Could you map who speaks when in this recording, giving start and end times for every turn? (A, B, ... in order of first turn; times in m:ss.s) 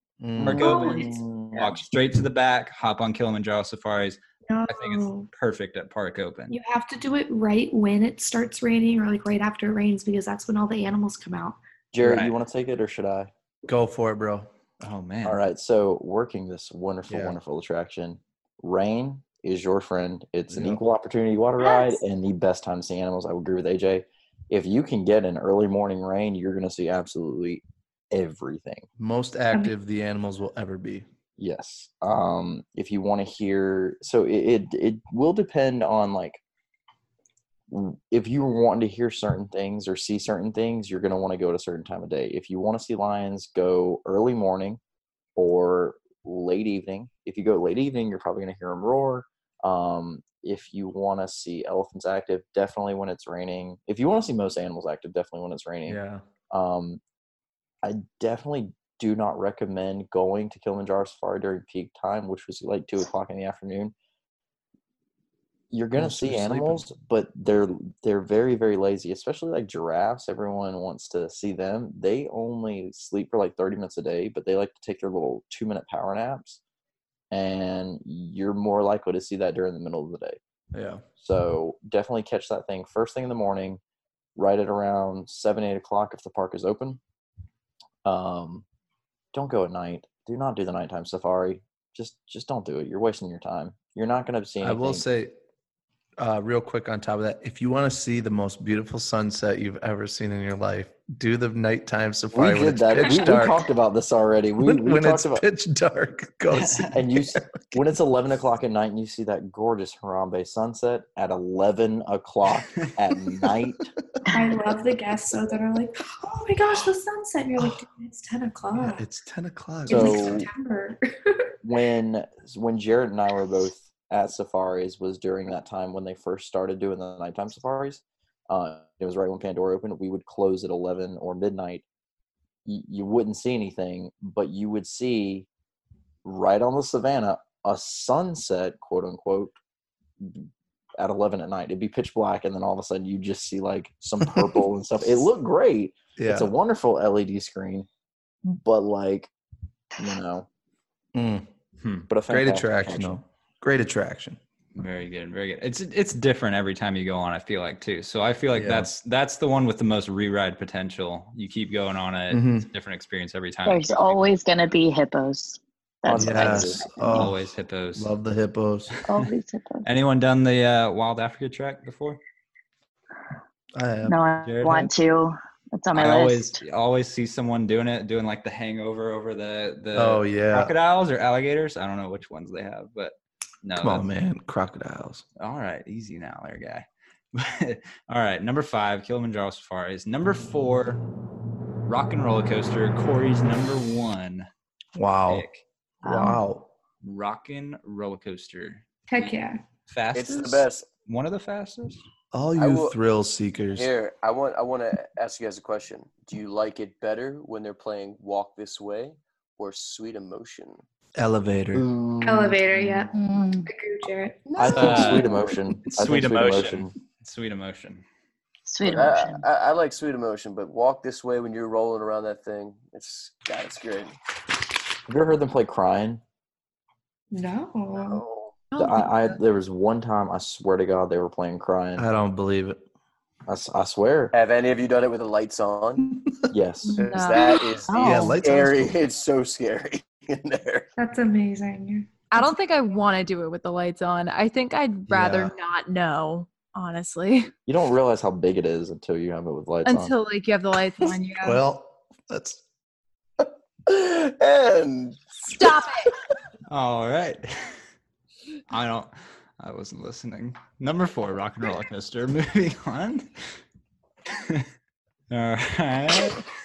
0:00.2-0:00.7 A
0:00.4-0:01.7 B
0:00.4-0:06.6 C
0:00.6-0:01.2 D
0:04.5-0:05.3 D
0:06.5-0:11.6 D
0:11.9-0:13.3 B
0:12.0-0:12.4 C
0:13.7-0:14.5 A
0:14.8-0:15.4 C
0:15.2-0:28.9 B
0:17.1-0:17.4 A
0:20.5-0:20.8 A
0:21.6-0:22.0 D
0:29.0-0:31.1 A
0:31.4-0:36.4 B
0:37.7-0:44.8 B
0:45.4-0:56.0 B
0:55.9-0:56.2 A
0:56.5-0:57.0 B
0:57.8-1:03.9 B
1:05.7-1:16.6 B
1:06.0-1:06.8 A
1:17.3-1:20.4 B
1:20.7-1:21.0 A
1:21.2-1:23.8 B
1:24.4-1:27.0 B
1:28.0-1:28.6 B
1:29.3-1:35.1 B
1:34.6-1:35.4 A
1:36.2-1:43.6 A
1:42.3-1:45.4 B
1:44.6-1:47.4 A
1:46.5-1:46.9 C
1:46.9-1:53.9 B
1:54.3-1:59.1 D
1:58.8-2:00.5 A
1:59.9-2:01.5 D
1:59.9-2:00.5 B
2:01.6-2:11.8 B
2:12.6-2:15.5 B
2:16.2-2:19.6 B
2:20.2-2:27.9 B
2:24.3-2:24.6 A
2:26.2-2:26.5 A
2:28.4-2:29.3 B
2:30.0-2:30.5 B
2:31.2-2:31.5 A
2:31.8-2:32.1 C
2:32.1-2:33.2 B
2:32.3-2:34.4 A
2:34.8-2:44.2 C
2:38.5-2:38.9 A
2:42.3-2:42.7 A
2:43.6-2:47.2 E
2:46.0-2:46.9 B
2:46.2-2:47.4 A
2:47.1-2:48.1 C
2:48.0-2:49.0 A
2:49.1-2:49.9 E
2:49.8-2:52.2 C
2:53.8-2:54.2 A
2:54.1-2:56.6 E
2:54.4-2:54.9 C
2:55.9-3:04.0 C
3:00.0-3:00.7 A
3:03.8-3:05.2 A
3:05.4-3:11.0 C
3:11.8-3:14.5 C
3:15.0-3:15.5 A
3:15.3-3:15.6 C
3:16.0-3:16.7 A
3:16.1-3:16.4 D
3:17.0-3:22.0 C
3:19.1-3:19.6 D
3:20.1-3:20.9 F
3:22.3-3:23.9 A
3:22.6-3:23.0 F
3:23.7-3:30.8 F
3:31.2-3:31.9 A
3:31.7-3:33.0 B
3:32.2-3:33.1 D
3:33.1-3:33.7 E
3:33.7-3:35.5 D
3:34.6-3:36.9 B
3:34.7-3:35.3 C
3:35.8-3:38.0 C
3:38.7-3:39.4 E
3:38.8-3:44.1 F
3:45.1-3:46.2 B
3:47.3-3:48.2 D
3:47.9-3:48.6 F
3:48.7-3:49.3 G
3:48.8-3:52.1 B
3:52.0-3:52.8 A
3:53.5-3:54.3 B
3:54.3-3:56.0 F
3:56.5-3:57.0 B
3:57.0-4:00.9 F
3:57.0-3:57.6 G
3:57.9-3:58.4 E
3:58.0-3:59.0 A
4:01.0-4:02.5 D
4:02.3-4:07.5 G
4:05.1-4:05.5 A
4:07.7-4:10.2 B
4:09.8-4:11.6 G
4:11.4-4:12.6 A
4:13.9-4:15.8 F
4:15.5-4:16.1 G
4:16.7-4:17.7 C
4:18.7-4:23.3 C
4:25.3-4:26.5 C